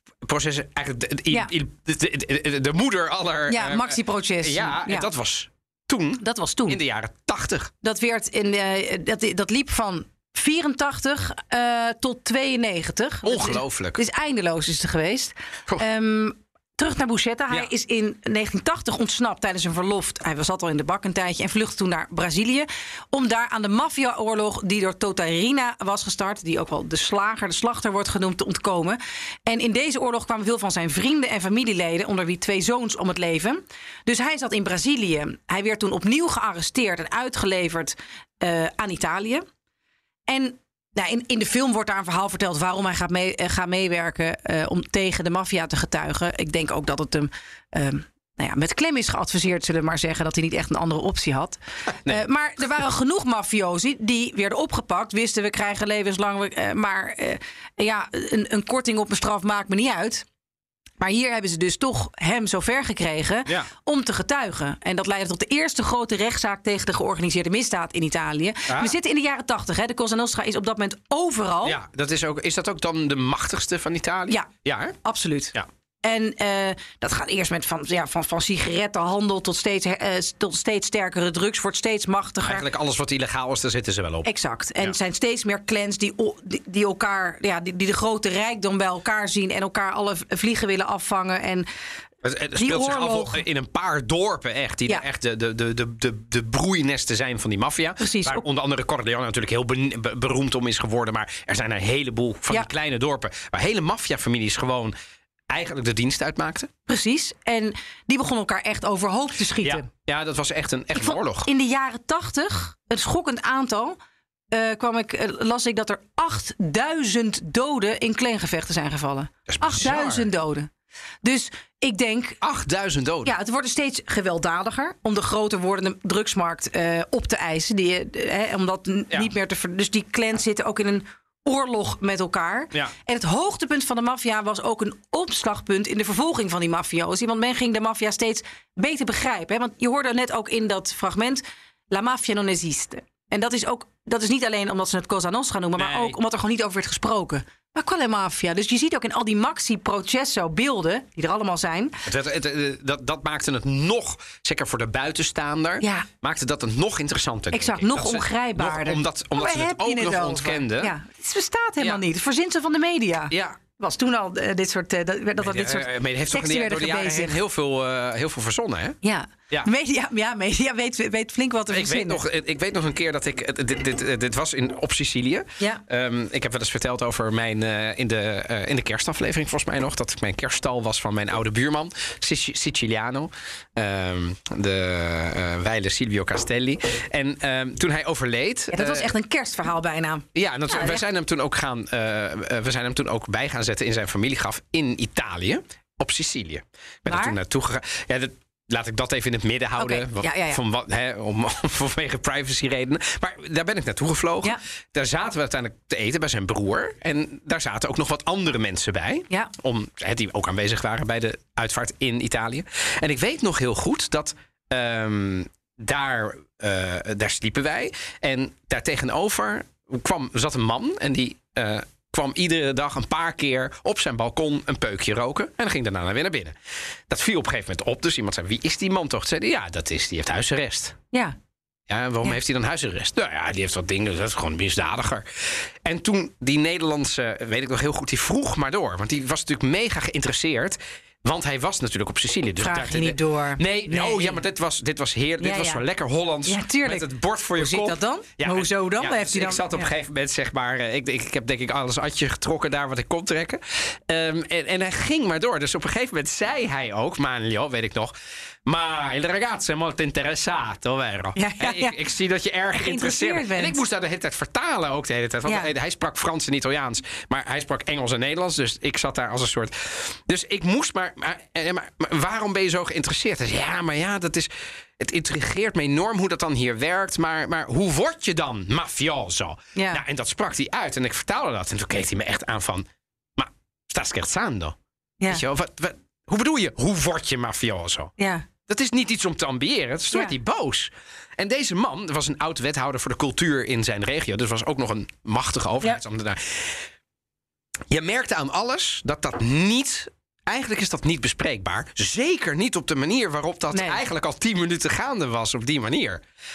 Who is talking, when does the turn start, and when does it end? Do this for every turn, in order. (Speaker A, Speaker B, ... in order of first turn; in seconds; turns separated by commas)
Speaker A: 0.2-7.7, Speaker B: 3.5-5.1, Speaker B: 6.2-6.8, Speaker B: 7.8-39.5, Speaker A: 13.2-14.0, Speaker B: 40.3-60.2, Speaker B: 61.0-71.8, Speaker A: 68.7-69.0, Speaker A: 71.6-75.0, Speaker B: 75.0-82.6, Speaker A: 82.4-84.3, Speaker B: 84.2-91.7, Speaker A: 92.2-104.9, Speaker B: 92.6-93.4, Speaker B: 98.0-98.5, Speaker A: 105.5-106.7, Speaker B: 106.9-109.9, Speaker A: 109.6-111.5, Speaker B: 111.0-114.0, Speaker B: 114.5-120.7, Speaker A: 119.5-120.3, Speaker B: 121.2-122.4, Speaker A: 122.4-123.3, Speaker B: 123.2-152.0, Speaker A: 145.8-146.2, Speaker A: 152.1-160.9, Speaker B: 155.8-156.1, Speaker B: 157.5-167.4, Speaker A: 163.3-163.6, Speaker A: 165.4-169.0, Speaker B: 169.0-172.2, Speaker A: 171.7-189.1, Speaker B: 188.7-191.0, Speaker A: 190.3-226.6, Speaker B: 197.1-197.4, Speaker B: 199.8-200.6, Speaker A: 227.1-231.0, Speaker A: 231.9-258.1, Speaker B: 242.6-244.4, Speaker B: 245.4-245.8, Speaker B: 246.5-249.9, Speaker A: 258.7-284.8, Speaker B: 261.4-262.0, Speaker B: 262.8-263.8, Speaker B: 265.5-265.7, Speaker B: 279.8-280.0, Speaker A: 285.3-288.1, Speaker B: 288.2-288.4, Speaker A: 288.7-296.9, Speaker A: 297.9-306.2, Speaker B: 303.7-304.0